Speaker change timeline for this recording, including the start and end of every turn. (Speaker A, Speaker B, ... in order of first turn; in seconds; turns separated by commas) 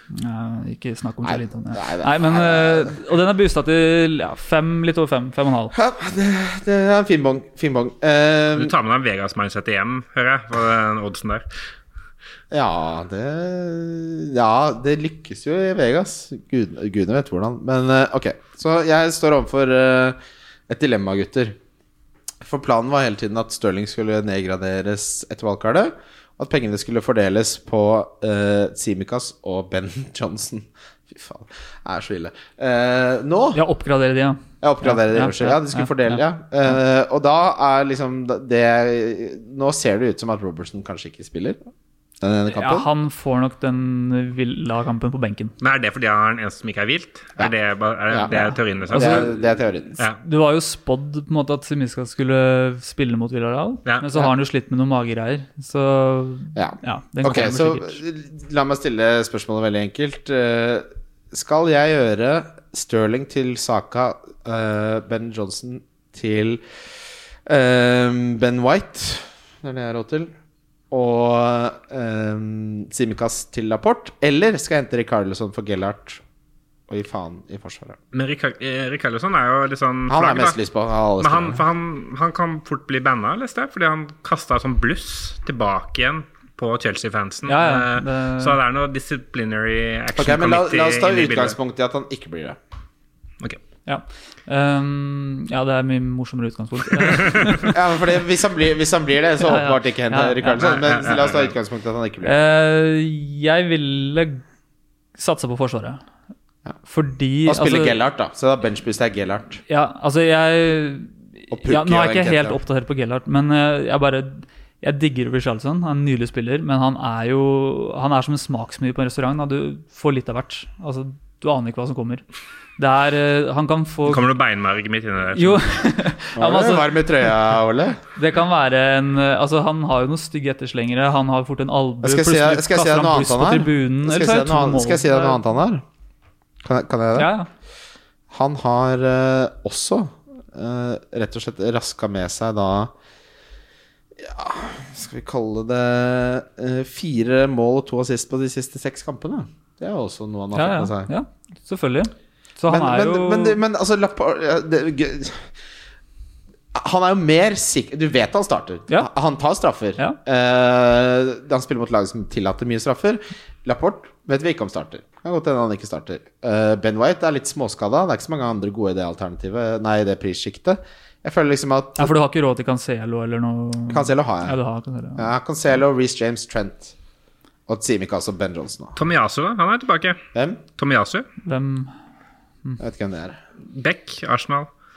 Speaker A: 0.1-5.7, Speaker B: 1.2-3.0, Speaker B: 5.7-8.7, Speaker C: 8.6-11.4, Speaker B: 12.5-20.2, Speaker B: 20.7-21.6, Speaker B: 22.4-33.6, Speaker A: 33.5-36.2, Speaker B: 34.6-41.6, Speaker B: 42.2-42.9, Speaker A: 42.5-45.5, Speaker C: 45.6-49.3, Speaker A: 48.3-49.4, Speaker B: 48.9-50.0, Speaker A: 50.2-58.0, Speaker B: 56.5-66.6, Speaker B: 67.5-70.3, Speaker B: 70.9-76.2, Speaker B: 76.9-78.0, Speaker C: 78.1-80.5, Speaker B: 80.1-81.6, Speaker C: 81.2-91.5, Speaker A: 87.5-88.6, Speaker B: 90.2-92.6, Speaker A: 93.8-97.8, Speaker C: 97.1-97.6, Speaker B: 97.7-102.4, Speaker A: 99.4-100.7, Speaker C: 100.6-101.5, Speaker A: 102.2-104.4, Speaker A: 105.2-106.0, Speaker A: 106.8-108.0, Speaker B: 107.5-109.6, Speaker A: 109.7-122.2, Speaker B: 111.5-112.6, Speaker A: 122.8-124.2, Speaker C: 124.0-125.7, Speaker A: 125.3-127.2, Speaker B: 126.3-128.0, Speaker A: 128.1-135.4, Speaker B: 132.0-135.8, Speaker B: 136.6-137.3, Speaker A: 137.1-137.5, Speaker B: 138.3-142.9, Speaker B: 144.2-151.1, Speaker A: 150.5-153.6, Speaker B: 152.7-155.5, Speaker B: 156.7-172.1, Speaker A: 172.0-175.3, Speaker B: 173.9-174.6, Speaker B: 175.2-176.9, Speaker B: 177.7-178.9, Speaker C: 178.9-180.2, Speaker B: 180.3-180.6, Speaker C: 180.8-181.3, Speaker A: 181.4-181.9, Speaker B: 182.8-183.4, Speaker C: 183.7-184.7